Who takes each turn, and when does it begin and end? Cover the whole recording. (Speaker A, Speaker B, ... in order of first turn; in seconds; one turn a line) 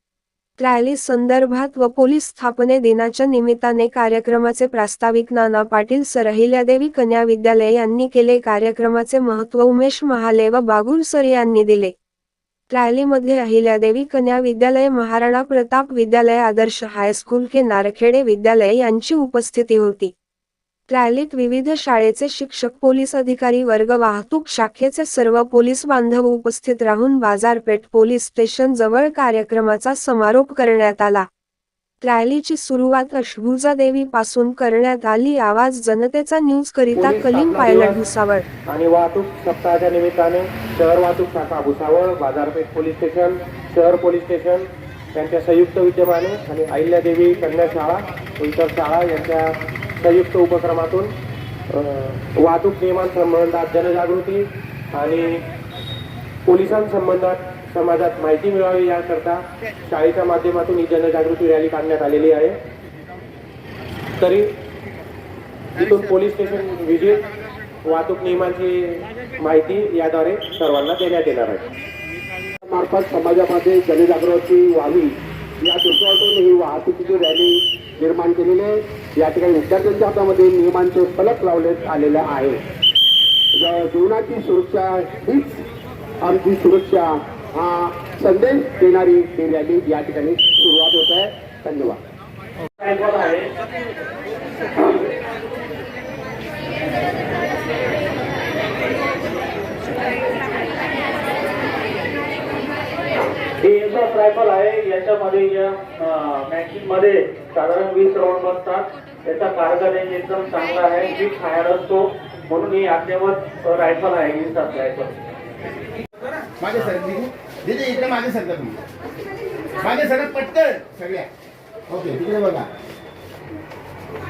Speaker A: 0.6-11.9
Speaker A: 12.7-20.1
Speaker A: 20.9-31.3
Speaker A: 32.0-38.5
Speaker B: 37.0-37.5
Speaker C: 37.5-38.0
Speaker C: 38.7-51.1
Speaker C: 51.7-55.4
Speaker C: 56.5-62.5
Speaker C: 64.2-64.5
Speaker C: 65.7-67.2
Speaker C: 67.8-71.6
Speaker B: 72.7-82.6
Speaker B: 83.5-85.7
Speaker B: 86.2-92.0
Speaker D: 92.8-93.5
Speaker D: 103.6-115.1
Speaker E: 116.6-118.8
Speaker E: 119.8-121.3
Speaker E: 121.9-122.7